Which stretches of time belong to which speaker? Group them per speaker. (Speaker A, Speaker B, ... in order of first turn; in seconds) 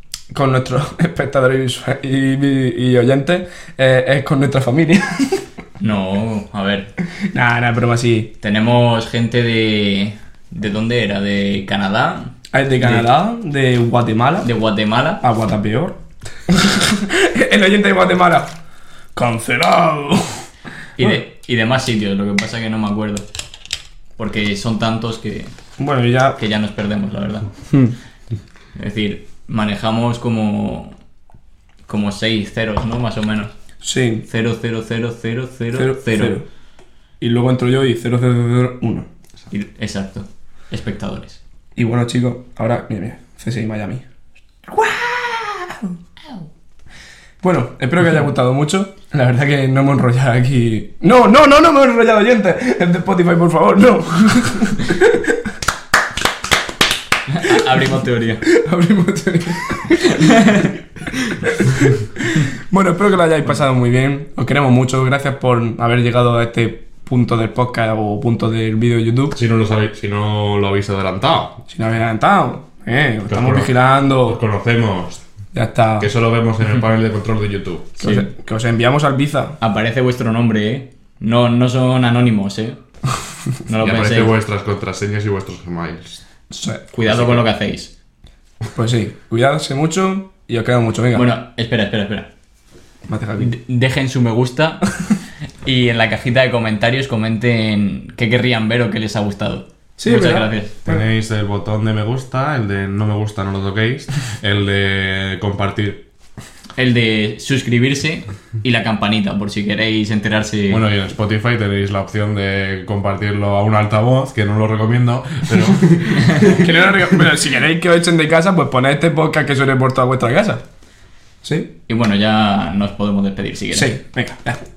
Speaker A: 0.3-5.4, 7.3-8.3, 12.5-14.5, 15.2-18.5, 19.1-20.4, 25.8-26.4, 33.8-34.2, 35.7-36.4, 37.2-39.1, 41.8-44.0, 44.7-46.0, 47.4-55.5, 58.4-60.6, 61.4-69.4, 71.7-74.4, 75.5-76.1, 78.0-79.6, 86.5-86.8, 88.7-91.3, 93.1-93.5, 100.0-101.0, 116.4-120.6, 121.4-121.7, 123.7-124.6
Speaker B: 5.8-6.9, 8.4-13.1, 14.4-15.2, 21.0-23.2, 24.2-25.5, 26.4-27.5, 28.7-30.9, 31.9-33.5, 34.3-36.4, 39.5-41.4, 57.3-58.5, 60.1-60.7, 78.0-78.3, 79.6-82.8, 83.7-84.3, 86.9-87.9, 91.1-92.3, 93.4-94.9, 95.6-100.7, 106.8-110.8, 121.9-123.9
Speaker C: 69.3-71.6, 73.3-75.2, 76.0-77.9, 83.8-86.2, 87.0-87.4, 100.8-106.0, 110.7-117.0